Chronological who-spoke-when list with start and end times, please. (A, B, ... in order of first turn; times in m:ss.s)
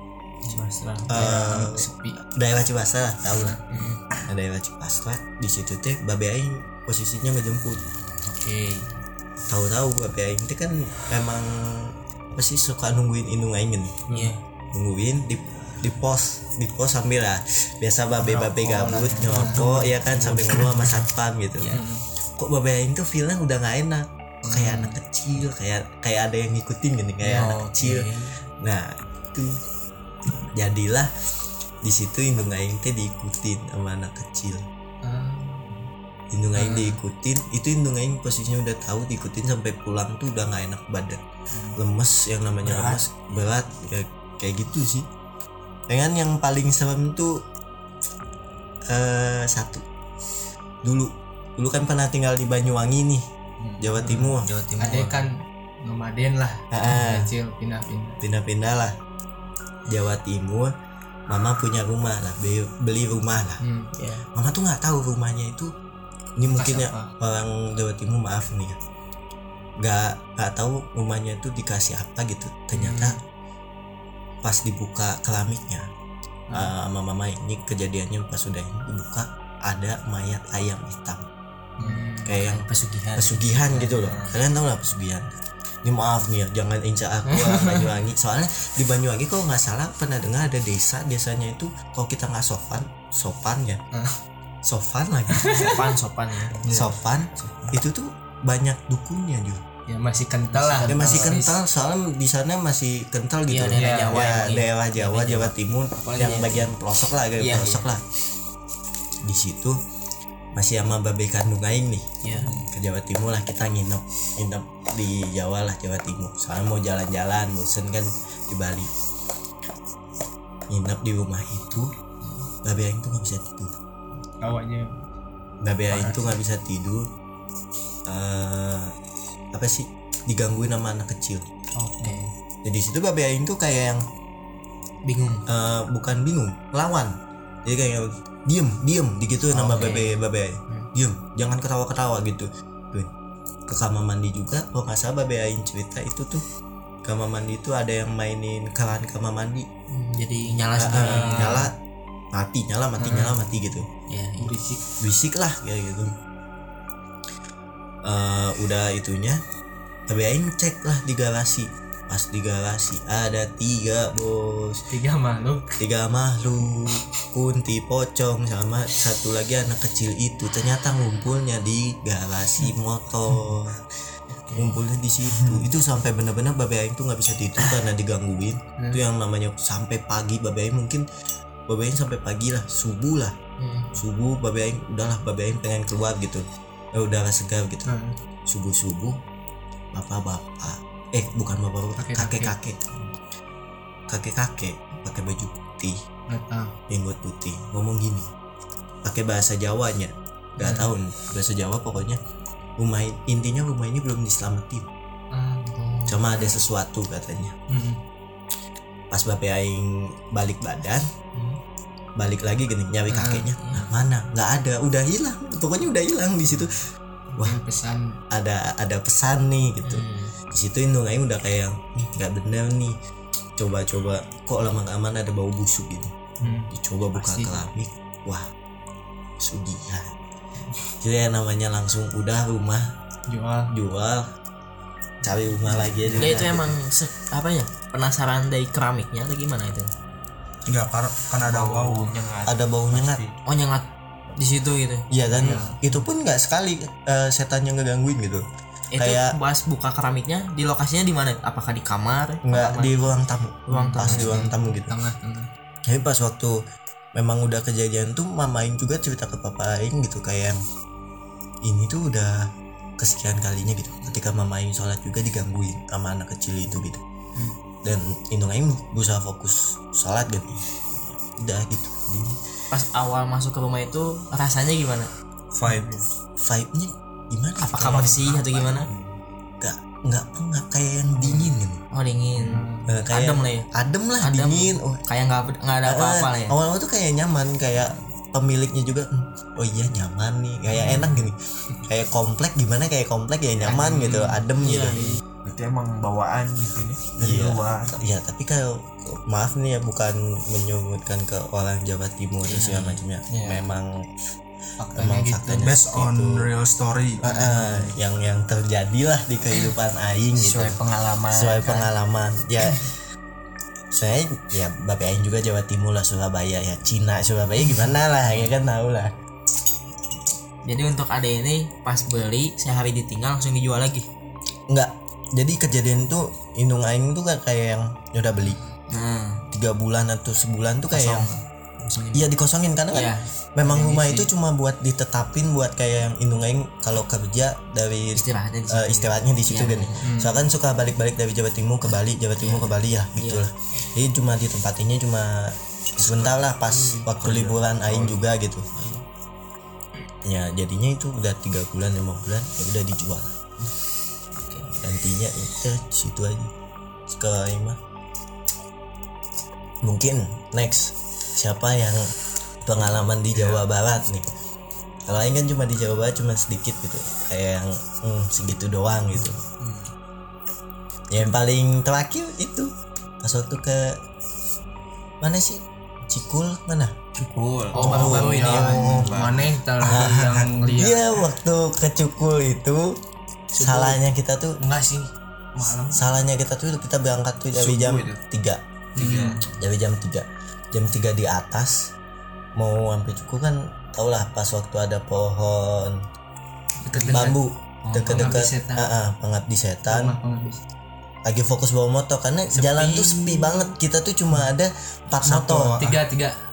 0:00.5-0:01.2 A
0:01.1-0:03.6 B
0:01.1-0:02.2 C
0:03.7-0:04.0 A
0:04.3-0:07.8 B
0:08.2-0:08.9 A
0:09.5-0:14.0 B
0:14.1-0:14.4 A
0:14.7-0:21.7 B
0:18.2-0:19.9 C
0:19.0-0:20.9 A
0:21.6-0:21.9 A
0:21.7-0:22.0 C
0:22.4-0:28.0 B
0:24.5-0:24.9 C
0:27.2-0:28.3 A
0:28.6-0:29.5 B
0:30.5-0:31.1 B
0:31.8-0:34.6 B
0:35.0-0:35.8 C
0:36.3-0:41.2 B
0:36.6-0:37.0 A
0:41.8-0:45.1 B
0:42.7-0:43.0 C
0:45.9-0:47.4 B
0:48.9-0:49.8 B
0:50.8-0:53.2 B
0:53.6-0:55.3 A
0:53.8-0:54.5 B
0:54.0-0:54.2 C
0:54.8-0:58.2 C
0:56.7-0:57.3 B
0:58.2-0:58.9 B
0:59.8-1:00.7 B
1:01.3-1:03.6 B
1:03.6-1:03.9 C
1:03.9-1:04.2 A
1:04.3-1:05.7 B
1:06.4-1:08.8 B
1:06.4-1:07.1 C
1:09.8-1:13.2 B
1:12.7-1:13.2 C
1:14.4-1:15.9 B
1:16.5-1:21.2 B
1:21.8-1:22.3 C
1:21.8-1:24.1 A
1:22.2-1:22.6 B
1:23.2-1:25.3 B
1:24.0-1:24.3 D
1:25.8-1:33.8 B
1:27.3-1:27.9 C
1:34.6-1:35.8 B
1:35.3-1:35.7 C
1:35.5-1:36.6 A
1:36.6-1:39.6 B
1:37.4-1:37.7 A
1:39.9-1:41.6 C
1:40.5-1:41.0 A
1:40.8-1:41.3 D
1:40.8-1:48.0 B
1:43.5-1:46.7 A
1:43.7-1:44.4 C
1:47.4-1:47.9 A
1:49.2-1:49.8 B
1:50.5-1:52.0 B
1:52.2-1:52.5 A
1:52.7-1:58.9 B
2:00.7-2:01.9 B
2:02.6-2:03.7 B
2:04.4-2:04.9 C
2:05.6-2:07.0 B
2:05.9-2:06.3 C
2:08.1-2:08.9 B
2:09.5-2:11.4 B
2:11.8-2:12.2 A
2:12.0-2:12.2 C
2:12.6-2:14.0 B
2:15.0-2:15.4 A
2:15.5-2:17.1 B
2:17.6-2:23.1 B
2:19.5-2:20.2 A
2:23.7-2:26.4 B
2:27.0-2:29.7 B
2:29.9-2:31.7 A
2:30.8-2:31.7 B
2:30.9-2:31.7 C
2:32.3-2:33.8 B
2:33.0-2:33.3 A
2:34.1-2:34.5 A
2:34.4-2:34.8 C
2:35.0-2:36.1 B
2:38.0-2:39.4 B
2:40.1-2:44.8 B
2:44.9-2:45.8 C
2:45.8-2:53.8 B
2:54.4-2:54.7 A
2:54.6-3:01.0 B
3:01.7-3:03.3 B
3:03.6-3:03.9 A
3:04.0-3:06.4 B
3:06.9-3:07.9 B
3:07.8-3:08.1 C
3:08.5-3:09.2 B
3:09.9-3:13.1 B
3:12.0-3:12.5 C
3:14.1-3:16.0 B
3:16.3-3:16.7 C
3:16.9-3:18.3 B
3:19.0-3:22.2 B
3:20.6-3:20.9 C
3:22.8-3:24.9 B
3:25.3-3:25.8 C
3:25.8-3:26.3 A
3:26.1-3:27.6 B
3:27.7-3:28.0 C
3:29.1-3:31.1 B
3:32.2-3:36.8 B
3:33.1-3:33.5 C
3:33.6-3:33.9 A
3:37.3-3:38.2 C
3:38.3-3:42.9 B
3:39.8-3:40.3 A
3:43.6-3:48.5 B
3:46.4-3:46.7 C
3:47.1-3:47.6 A
3:49.4-3:50.1 B
3:51.0-3:52.9 B
3:53.3-3:53.7 C
3:53.7-3:54.3 B
3:55.2-3:56.8 B
3:55.3-3:56.4 C
3:56.2-3:59.9 A
4:00.6-4:02.1 E
4:01.4-4:03.3 D
4:02.4-4:03.2 B
4:03.4-4:05.1 A
4:05.1-4:08.4 B
4:05.3-4:06.0 C
4:08.9-4:13.1 A
4:09.0-4:09.3 B
4:12.4-4:14.9 B
4:13.7-4:14.5 A
4:13.7-4:15.5 C
4:15.8-4:16.6 B
4:17.1-4:20.6 B
4:21.6-4:22.4 B
4:23.0-4:27.0 B
4:27.8-4:32.4 B
4:32.7-4:35.1 A
4:35.5-4:36.0 E
4:35.6-4:36.0 C
4:36.4-4:38.9 B
4:37.6-4:38.9 A
4:39.6-4:41.8 B
4:41.2-4:43.7 A
4:42.4-4:42.9 C
4:42.8-4:45.0 B
4:44.2-4:46.6 A
4:45.8-4:55.0 B
4:50.8-4:51.1 C
4:53.6-4:55.2 A
4:55.4-4:57.9 D
4:57.2-5:04.0 B
5:02.4-5:03.0 A
5:03.3-5:03.7 D
5:04.8-5:05.7 C
5:05.0-5:06.4 B
5:05.6-5:07.4 E
5:07.2-5:10.8 B
5:07.3-5:07.9 A
5:10.4-5:11.8 D
5:11.3-5:12.8 B
5:13.9-5:19.1 B
5:20.6-5:24.0 A
5:24.7-5:28.6 B
5:28.9-5:29.4 A
5:29.5-5:31.3 B
5:30.9-5:32.3 A
5:32.1-5:48.6 B
5:32.9-5:34.3 A
5:38.1-5:40.1 A
5:40.0-5:40.4 C
5:42.4-5:43.5 A
5:46.3-5:47.1 A
5:47.2-5:48.2 E
5:48.8-5:49.0 A
5:50.2-5:53.3 B
5:54.4-5:54.7 A
5:54.8-5:56.5 B
5:57.1-5:57.8 B
5:59.8-6:02.0 B
6:02.6-6:04.3 B
6:05.1-6:09.4 B
6:11.1-6:13.9 B
6:15.2-6:17.0 B
6:17.2-6:19.5 D
6:17.7-6:21.0 C
6:17.8-6:19.0 E
6:17.8-6:18.8 B
6:18.1-6:18.6 A
6:19.8-6:20.6 E
6:19.9-6:22.9 B
6:23.5-6:24.0 C
6:23.6-6:24.6 B
6:24.6-6:26.1 C
6:25.6-6:28.6 B
6:27.5-6:28.2 D
6:29.0-6:29.4 C
6:29.0-6:29.4 D
6:29.6-6:31.9 B
6:32.6-6:36.0 B
6:36.8-6:37.4 C
6:37.1-6:40.2 B
6:37.8-6:38.3 A
6:38.0-6:38.9 C
6:39.9-6:40.6 C
6:41.2-6:45.8 B
6:42.7-6:43.3 C
6:45.2-6:45.9 E
6:45.8-6:46.4 C